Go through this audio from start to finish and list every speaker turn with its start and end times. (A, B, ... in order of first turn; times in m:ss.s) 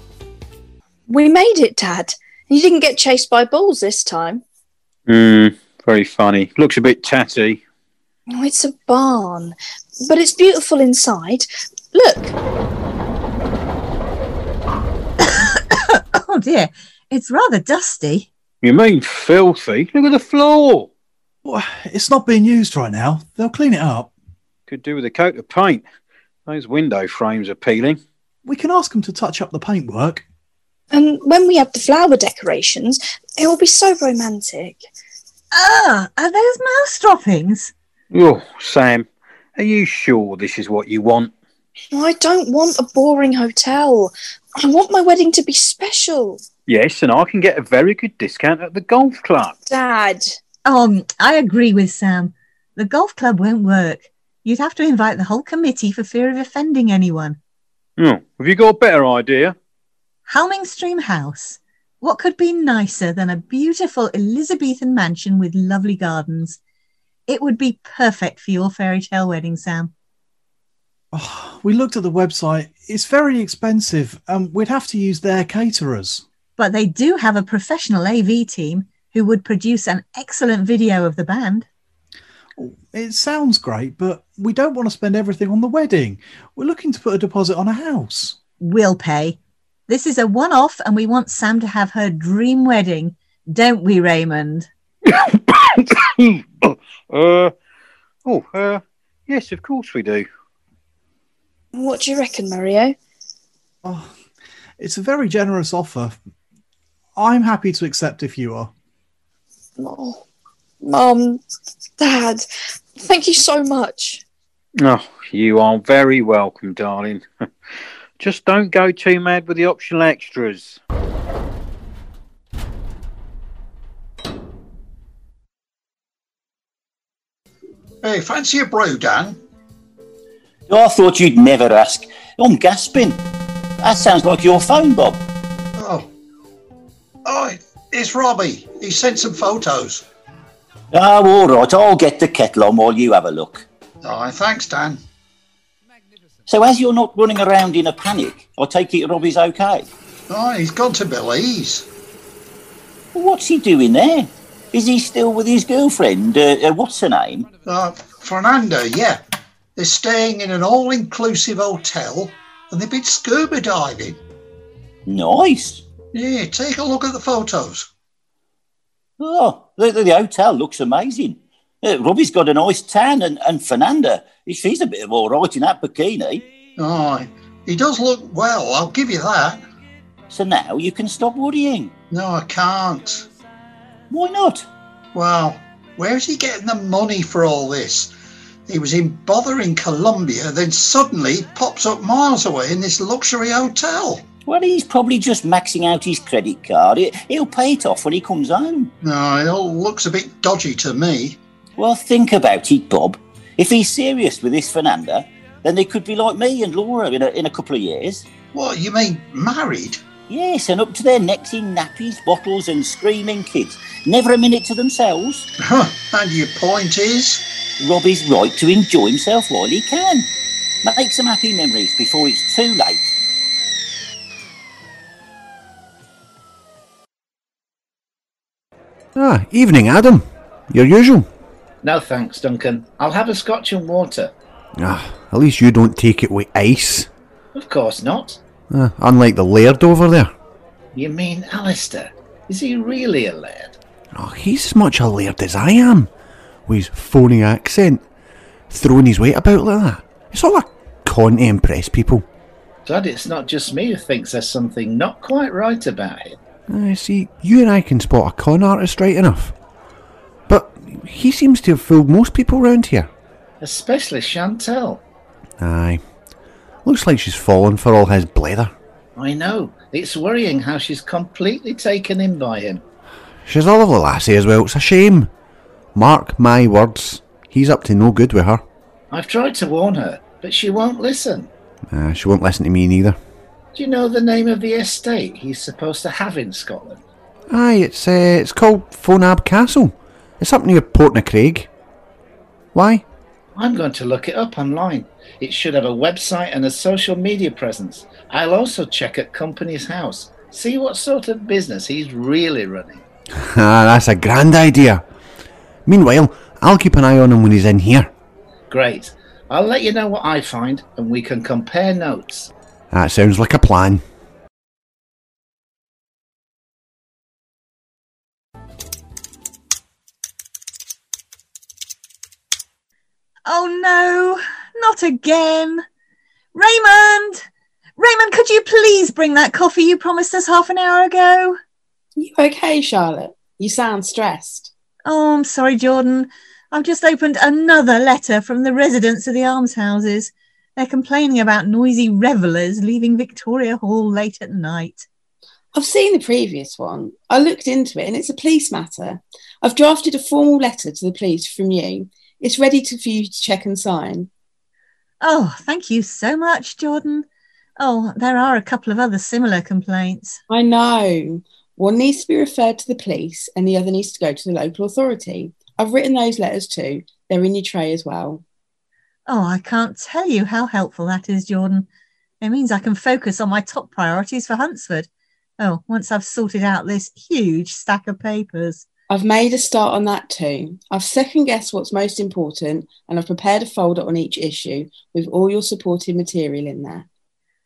0:01.1-0:04.4 A
0:05.2-0:07.5 B
0:08.3-0:12.4 A
0:15.2-0:18.3 C
0:18.7-0:20.6 B
0:21.4-0:24.1 D
0:24.7-0:25.8 B
0:26.5-0:28.0 B
0:28.4-0:30.2 D
0:30.9-0:34.8 A
0:35.5-0:37.7 C
0:38.2-0:39.0 B
0:39.6-0:41.3 B
0:41.9-0:46.4 A
0:46.7-0:49.4 B
0:49.6-0:50.4 A
0:50.6-0:57.4 C
0:58.1-0:59.5 B
1:00.3-1:06.6 C
1:07.3-1:09.9 C
1:11.1-1:16.2 D
1:16.6-1:21.7 C
1:22.6-1:28.4 D
1:28.6-1:29.4 C
1:29.9-1:34.7 C
1:37.2-1:37.5 B
1:38.3-1:38.8 B
1:39.3-1:40.2 B
1:41.7-1:42.9 A
1:43.8-1:44.1 D
1:44.8-1:46.2 D
1:47.2-1:48.7 D
1:49.8-1:50.2 A
1:50.8-1:51.4 A
1:52.0-1:52.4 A
1:53.0-1:54.2 A
1:54.9-1:57.2 B
1:58.2-2:00.7 B
2:08.0-2:09.4 E
2:10.7-2:13.2 F
2:13.8-2:15.2 F
2:15.8-2:16.1 E
2:17.2-2:20.0 E
2:20.9-2:23.6 F
2:24.0-2:25.0 E
2:26.5-2:29.8 F
2:30.3-2:31.8 E
2:33.1-2:37.5 F
2:37.6-2:39.2 E
2:39.8-2:44.2 E
2:45.1-2:45.8 F
2:46.1-2:47.9 E
2:49.2-2:56.4 F
2:56.8-2:59.6 E
3:00.3-3:01.9 F
3:02.1-3:03.2 E
3:04.1-3:04.7 F
3:05.1-3:08.1 E
3:08.7-3:14.2 E
3:14.4-3:18.9 F
3:19.0-3:21.4 E
3:21.8-3:28.3 F
3:28.5-3:30.0 E
3:30.3-3:35.5 F
3:35.6-3:37.4 E
3:37.8-3:40.3 F
3:40.8-3:43.2 F
3:49.2-3:51.3 G
3:51.8-3:54.3 H
3:54.8-3:57.1 G
3:57.5-3:58.4 H
3:58.7-4:00.3 G
4:00.9-4:03.8 H
4:04.1-4:06.1 G
4:06.7-4:08.0 G
4:08.7-4:12.2 G
4:12.8-4:16.4 H
4:16.7-4:19.5 G
4:20.5-4:23.1 G
4:23.6-4:25.0 H
4:25.6-4:26.0 G
4:26.8-4:28.7 G
4:29.2-4:32.8 H
4:33.4-4:35.3 G
4:35.9-4:38.6 G
4:39.1-4:41.5 H
4:41.9-4:43.2 G
4:43.7-4:47.0 H
4:47.5-4:51.7 G
4:52.7-4:53.0 G
4:53.6-5:03.0 H
5:03.5-5:05.0 G
5:05.8-5:08.1 G
5:08.7-5:12.5 H
5:12.9-5:14.0 G
5:23.4-5:25.8 C
5:26.5-5:27.4 C
5:28.0-5:31.6 C
5:32.2-5:34.7 I
5:35.0-5:45.0 C
5:45.7-5:54.3 I
5:55.2-5:57.2 C
5:57.8-6:00.4 C
6:00.5-6:08.4 I
6:09.3-6:11.9 C
6:12.4-6:15.1 C
6:15.6-6:18.8 C
6:19.1-6:27.0 I